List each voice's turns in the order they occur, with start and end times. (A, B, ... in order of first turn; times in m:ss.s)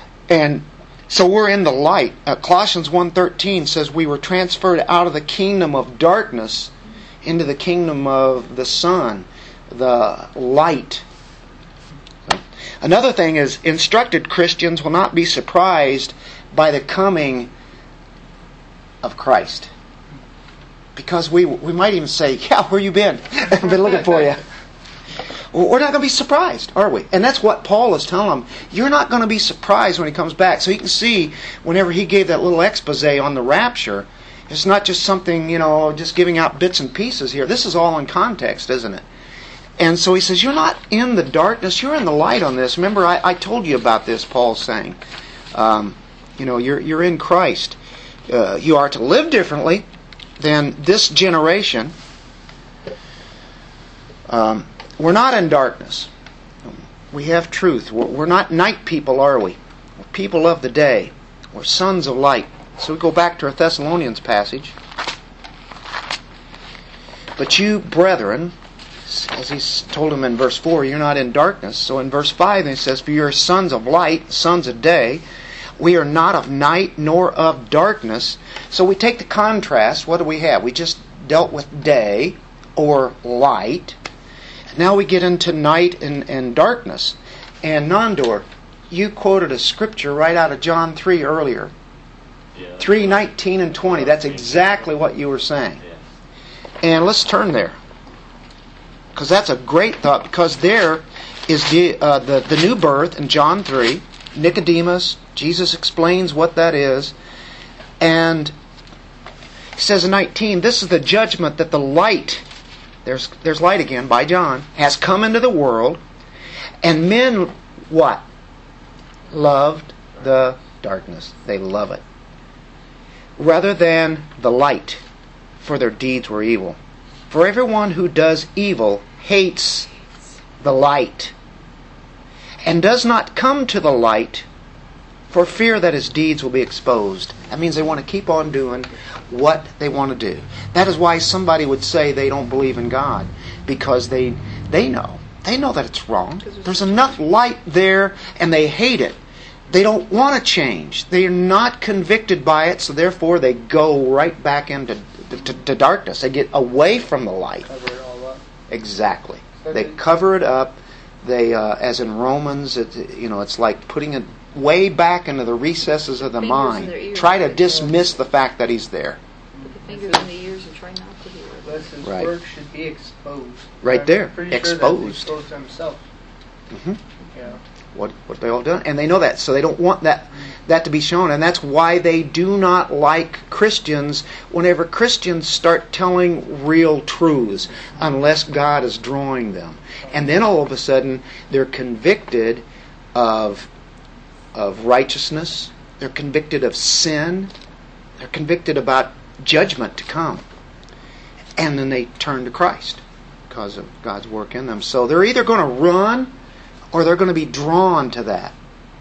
0:00.3-0:06.7 A
0:07.2-0:11.0 A
0:12.3-0:17.5 A
0:19.0-0:19.7 A
0:21.0-0:24.4 A
0:25.5-0:39.0 A
0:39.8-0:45.0 A
0:45.5-0:49.9 A
0:50.4-0:51.9 A
0:54.3-0:56.1 A
0:56.6-1:04.7 A
1:07.4-1:08.5 A
1:09.0-1:15.2 A
1:15.8-1:24.0 A
1:24.7-1:31.7 A
1:32.5-1:35.1 B
1:32.8-1:35.8 A
1:36.8-1:37.8 A
1:39.1-1:47.1 A
1:48.0-1:48.5 A
1:49.8-1:52.4 A
1:53.0-1:56.0 A
1:56.8-1:58.2 A
1:59.3-2:02.0 A
2:03.4-2:05.0 A
2:05.6-2:06.8 A
2:07.3-2:09.9 A
2:10.6-2:11.3 A
2:12.6-2:14.4 A
2:15.3-2:37.7 A
2:26.4-2:27.1 C
2:37.6-2:38.4 D
2:38.7-2:49.2 A
2:39.6-2:40.0 D
2:46.4-2:48.0 C
2:49.5-2:50.3 D
2:49.6-2:51.9 C
2:51.6-2:56.0 D
2:52.0-2:52.3 A
2:53.8-2:55.3 A
2:56.7-2:57.0 A
2:57.9-3:13.7 A
3:14.5-3:17.5 A
3:18.2-3:20.4 A
3:21.6-3:26.4 A
3:26.9-3:28.5 A